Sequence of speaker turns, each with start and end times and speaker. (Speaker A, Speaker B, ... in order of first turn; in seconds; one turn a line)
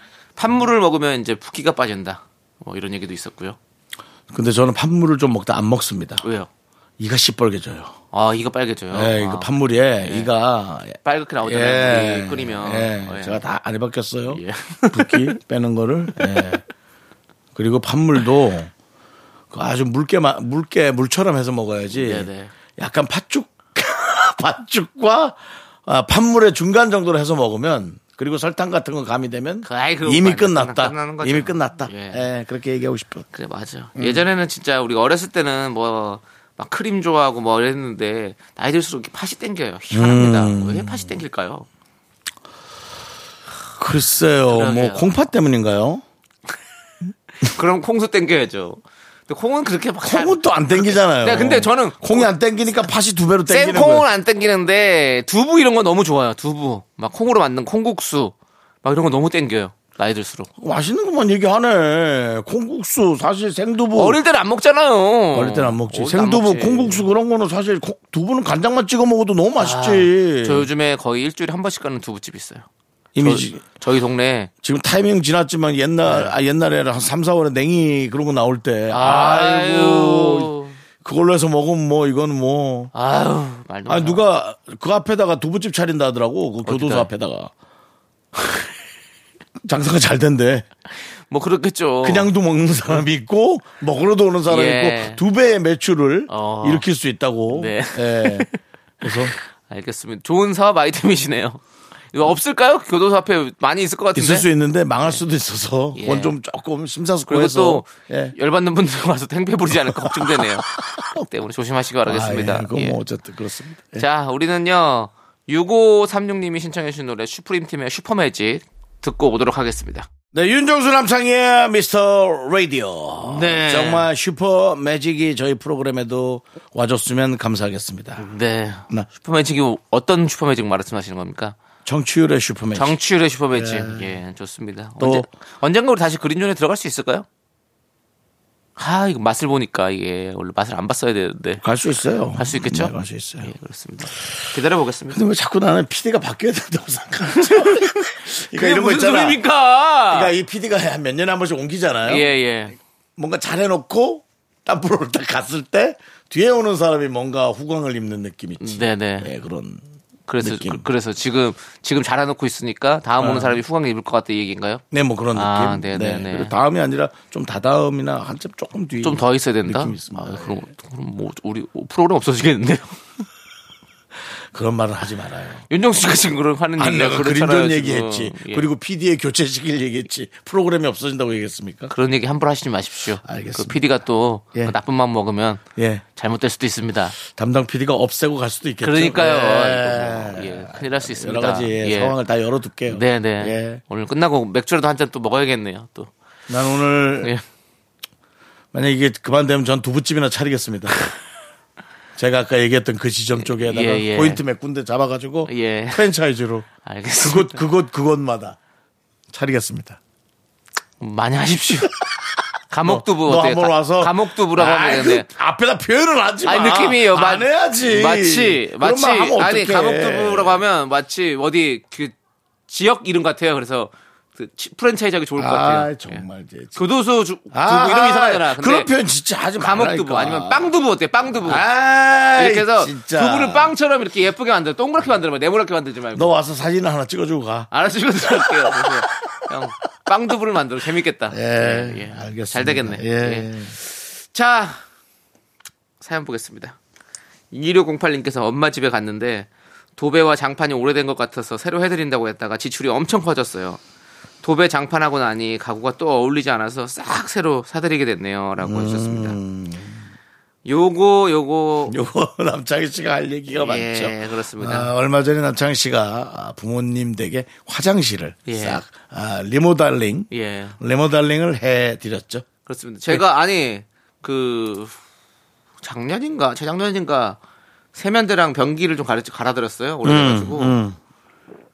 Speaker A: 0.4-3.6
Speaker B: 4.3-6.2
Speaker A: 6.2-6.5
Speaker B: 7.0-8.0
Speaker A: 8.1-9.5
Speaker B: 8.9-16.6
Speaker A: 10.0-10.3
Speaker A: 11.0-13.4
Speaker A: 14.3-15.4
Speaker A: 16.2-16.5
Speaker B: 17.6-18.7
Speaker B: 19.5-33.3
Speaker A: 21.9-22.5
Speaker A: 29.6-32.2
Speaker A: 33.3-41.7
Speaker B: 34.0-34.3
Speaker B: 39.9-41.1
Speaker B: 43.8-46.0
Speaker A: 44.5-45.1
Speaker A: 47.4-52.3
Speaker B: 50.0-54.1
Speaker A: 53.5-60.5
Speaker B: 60.6-64.2
Speaker A: 64.0-67.1
Speaker B: 65.3-70.7
Speaker A: 69.6-72.7
Speaker B: 73.2-73.6
Speaker A: 73.2-74.5
Speaker B: 74.6-82.9
Speaker A: 76.0-76.3
Speaker A: 78.9-80.8
Speaker A: 82.9-84.2
Speaker B: 83.9-87.5
Speaker A: 86.7-87.1
Speaker B: 89.6-90.7
Speaker A: 91.3-92.3
Speaker B: 92.0-98.5
Speaker A: 94.5-95.2
Speaker A: 96.3-96.9
Speaker A: 97.5-98.6
Speaker B: 99.0-99.3
Speaker A: 99.1-101.6
Speaker A: 102.1-104.5
Speaker B: 104.1-108.3
Speaker A: 106.0-106.4
Speaker A: 107.3-113.0
Speaker B: 109.9-111.2
Speaker B: 112.0-114.0
Speaker A: 114.0-120.1
Speaker B: 120.3-128.2
Speaker A: 123.2-124.1
Speaker A: 128.2-131.6
Speaker B: 131.8-133.0
Speaker A: 132.8-137.3
Speaker B: 133.5-134.1
Speaker B: 135.0-135.3
Speaker A: 138.8-141.6
Speaker B: 141.6-143.5
Speaker A: 142.4-145.2
Speaker B: 145.1-149.4
Speaker A: 147.4-150.3
Speaker B: 150.1-152.3
Speaker A: 152.1-152.8
Speaker B: 153.2-159.8
Speaker A: 158.6-159.3
Speaker A: 160.3-164.8
Speaker B: 160.4-160.8
Speaker B: 163.2-163.6
Speaker B: 164.9-170.6
Speaker A: 165.3-166.5
Speaker A: 169.0-173.3
Speaker B: 174.5-175.6
Speaker A: 175.7-178.7
Speaker B: 176.8-181.9
Speaker A: 181.9-185.6
Speaker B: 183.2-183.8
Speaker B: 185.8-186.0
Speaker A: 186.2-187.2
Speaker B: 187.2-193.8
Speaker A: 188.8-192.2
Speaker A: 192.9-196.1
Speaker B: 196.5-197.3
Speaker B: 198.7-201.0
Speaker B: 202.2-206.7
Speaker A: 203.4-204.4
Speaker A: 205.4-206.1
Speaker A: 206.8-207.6
Speaker B: 207.2-208.6
Speaker B: 209.3-210.0
Speaker A: 211.0-211.9
Speaker A: 212.7-215.3
Speaker B: 212.8-220.6
Speaker A: 216.4-222.1
Speaker A: 222.7-228.9
Speaker B: 225.4-226.8
Speaker B: 227.5-230.7
Speaker A: 229.6-231.7
Speaker B: 231.3-233.7
Speaker A: 232.4-236.3
Speaker B: 236.2-237.7
Speaker A: 237.7-244.8
Speaker B: 238.2-239.5
Speaker B: 241.3-243.8
Speaker A: 246.0-246.8
Speaker A: 247.5-253.8
Speaker A: 254.4-259.4
Speaker B: 258.6-260.1
Speaker A: 260.7-262.0
Speaker B: 261.9-272.4
Speaker A: 263.5-264.9
Speaker A: 268.5-268.8
Speaker A: 270.3-270.8
Speaker A: 272.7-274.9
Speaker A: 275.8-277.4
Speaker A: 277.9-280.8
Speaker B: 280.0-281.0